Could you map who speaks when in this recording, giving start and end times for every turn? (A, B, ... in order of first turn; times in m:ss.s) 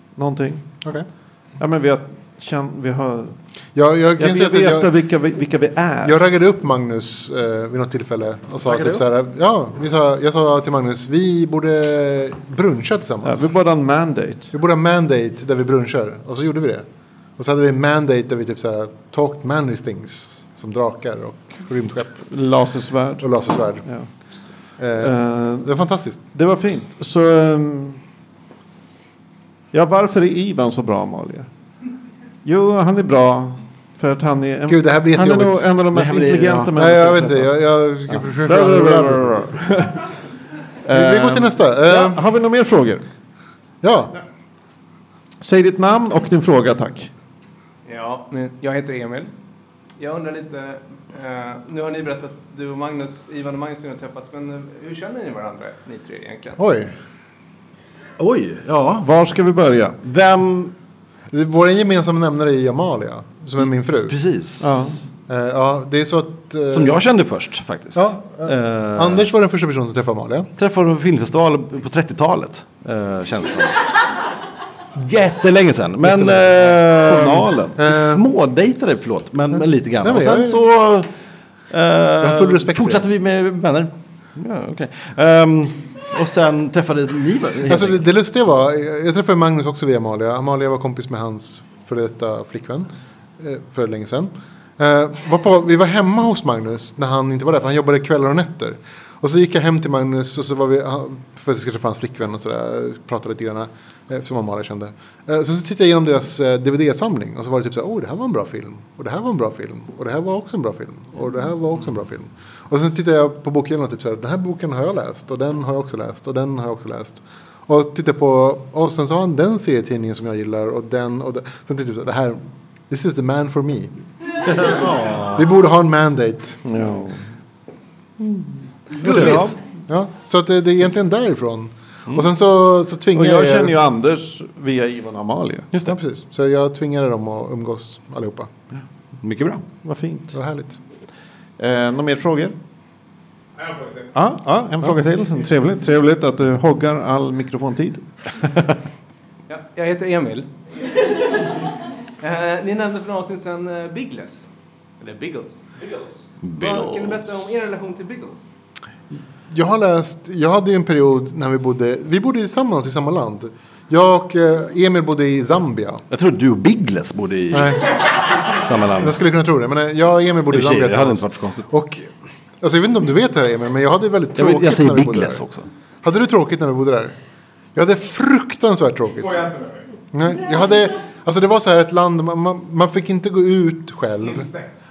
0:00.2-0:00.8 A
0:01.6-0:03.4 A
0:03.8-0:04.9 B
0:04.2-0:06.2 A
0:06.0-0:13.5 B
0:08.7-0:09.0 C
0:13.2-0:14.5 A
0:14.5-0:16.8 B
0:17.4-0:22.3 B
0:22.3-0:24.1 A
0:23.2-0:23.9 B
0:24.8-0:26.2 B
0:25.0-0:25.7 A
0:26.3-0:28.0 A
0:29.7-0:31.5 A
0:32.4-0:37.5 A
0:34.7-0:35.7 B
0:35.9-0:36.8 C
0:36.7-0:39.5 B
0:38.5-0:39.2 C
0:38.5-0:40.0 A
0:40.8-0:43.0 A
0:40.9-0:42.2 B
0:43.8-0:44.1 B
0:45.4-0:47.1 A
0:47.9-0:49.3 D
0:50.0-0:56.6 D
0:56.6-0:56.9 B
0:58.2-0:59.1 C
0:59.0-1:00.0 A
1:00.0-1:00.7 C
1:01.3-1:04.2 B
1:04.1-1:05.0 C
1:04.6-1:05.0 A
1:05.3-1:07.0 B
1:06.7-1:09.3 C
1:08.0-1:10.5 B
1:10.6-1:13.9 C
1:15.0-1:21.1 C
1:16.0-1:17.8 A
1:17.8-1:18.2 B
1:19.5-1:20.6 B
1:21.7-1:28.0 C
1:22.2-1:23.1 B
1:27.7-2:03.9 B
2:04.5-2:05.5 C
2:05.4-2:06.6 B
2:06.6-2:07.2 A
2:08.2-2:09.6 A
2:09.0-2:09.6 C
2:09.9-2:13.8 B
2:13.1-2:15.7 A
2:15.8-2:18.5 B
2:19.2-2:19.6 C
2:19.8-2:20.4 A
2:20.3-2:20.8 B
2:21.6-2:22.6 A
2:23.6-2:24.1 D
2:24.2-2:28.6 A
2:29.5-2:31.0 D
2:32.2-2:34.5 D
2:35.0-2:38.5 D
2:36.4-2:37.2 C
2:39.5-2:46.0 B
2:46.1-2:47.9 C
2:47.5-2:48.0 B
2:48.5-2:49.2 C
2:49.0-2:55.5 B
2:50.5-2:51.6 C
2:54.4-2:55.7 C
2:56.0-2:57.2 B
2:57.8-2:59.5 B
2:59.1-2:59.9 D
3:00.1-3:04.5 B
3:04.2-3:04.7 D